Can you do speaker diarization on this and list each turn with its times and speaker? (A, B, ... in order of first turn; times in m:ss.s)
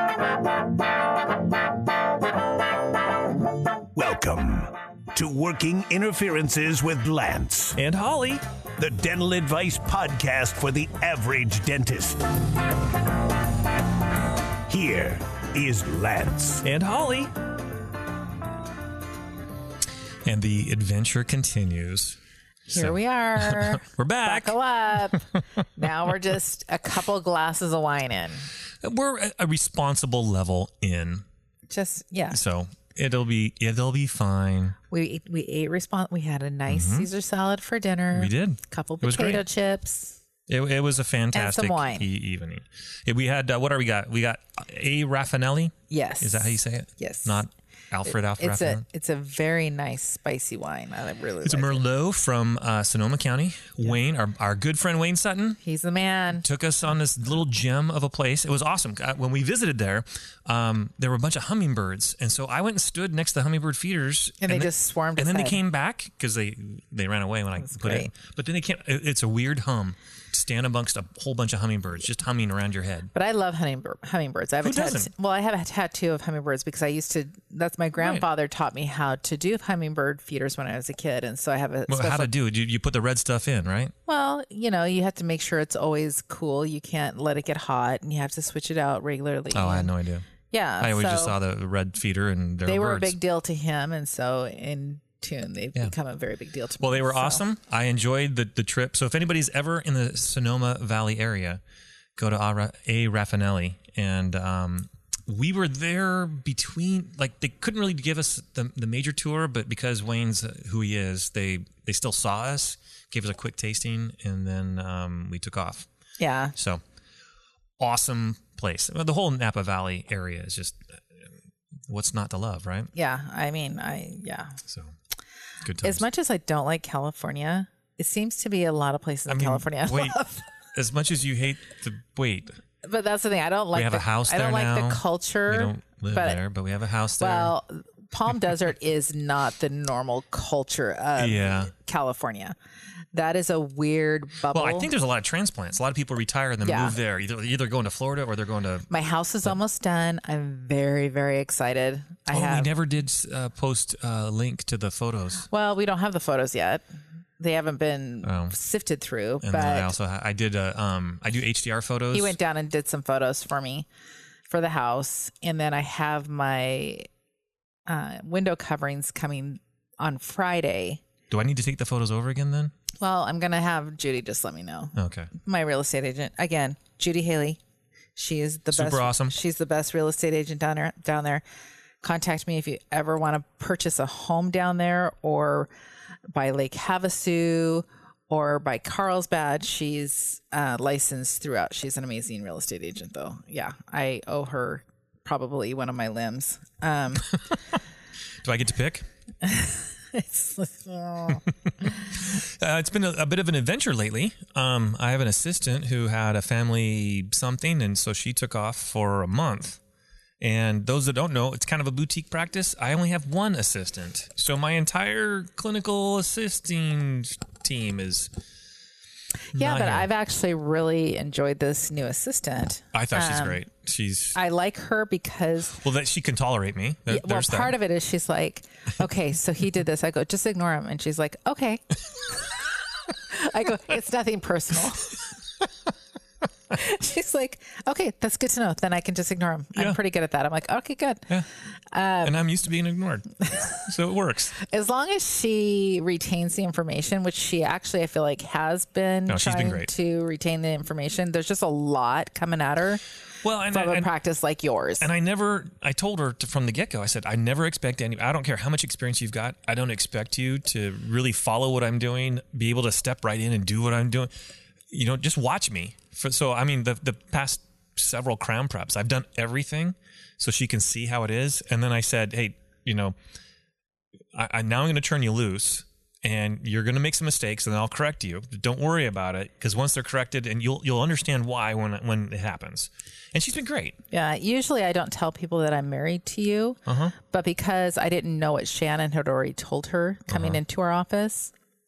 0:03.9-0:07.8 A
0:07.8-0:08.4 B
0:08.8-0:12.4 A
0:14.7-0:16.7 A
0:16.6-0:17.3 B
0:20.3-0:24.6 B
0:22.7-0:28.5 C
0:28.8-0:31.2 B
0:31.7-0:32.4 C
0:32.3-0:34.8 B
0:34.9-0:40.2 C
0:36.7-0:37.1 B
0:38.1-0:39.4 B
0:40.5-0:48.8 B
0:41.3-0:42.1 C
0:45.9-0:47.4 C
0:48.1-0:51.8 C
0:51.4-0:55.6 B
0:55.6-0:56.4 C
0:56.3-1:13.1 B
1:04.4-1:05.6 C
1:07.6-1:08.1 C
1:13.1-1:22.3 C
1:14.6-1:15.1 B
1:18.0-1:18.3 B
1:21.9-1:23.9 B
1:24.1-1:29.9 C
1:29.5-1:30.3 B
1:30.5-1:31.4 C
1:30.8-1:33.2 B
1:32.6-1:37.4 C
1:36.8-1:41.6 B
1:42.2-1:55.9 B
1:56.2-1:56.5 C
1:56.6-1:56.8 B
1:57.8-2:01.3 B
2:01.9-2:02.9 B
2:03.0-2:04.6 C
2:04.7-2:04.9 B
2:05.6-2:06.0 B
2:05.8-2:10.4 C
2:09.3-2:10.2 B
2:10.7-2:12.6 B
2:12.8-2:16.4 C
2:13.7-2:17.6 B
2:17.2-2:22.6 C
2:21.2-2:21.7 B
2:23.1-2:24.9 C
2:24.5-2:28.9 B
2:26.6-2:27.0 C
2:28.9-2:32.7 C
2:32.3-2:35.5 B
2:35.5-2:36.8 C
2:37.4-2:39.9 C
2:38.2-2:38.6 B
2:39.4-2:42.4 B
2:42.1-2:43.9 C
2:44.5-2:47.1 C
2:47.9-2:51.0 C
2:51.3-2:52.7 B
2:53.0-2:57.6 C
2:55.0-2:55.3 B
2:58.2-3:01.4 C
2:58.7-2:59.4 B
3:02.0-3:05.7 C
3:06.3-3:17.4 C
3:18.4-3:19.1 B
3:19.4-3:21.4 C
3:22.2-3:29.8 B
3:30.4-3:38.3 B
3:39.6-3:40.1 B
3:39.6-3:43.6 C
3:42.9-3:44.4 B
3:44.3-3:45.8 C
3:45.8-3:47.8 B
3:47.1-3:52.5 C
3:53.3-3:55.1 C
3:56.7-4:01.3 C
4:01.9-4:02.4 C
4:02.2-4:04.6 B
4:04.6-4:13.0 C
4:09.3-4:09.9 B
4:13.4-4:14.1 B
4:13.7-4:15.1 C
4:15.0-4:24.3 B
4:24.9-4:33.2 B
4:34.3-4:44.0 B
4:44.1-4:51.5 C
4:46.9-4:47.2 B
4:50.3-4:50.6 B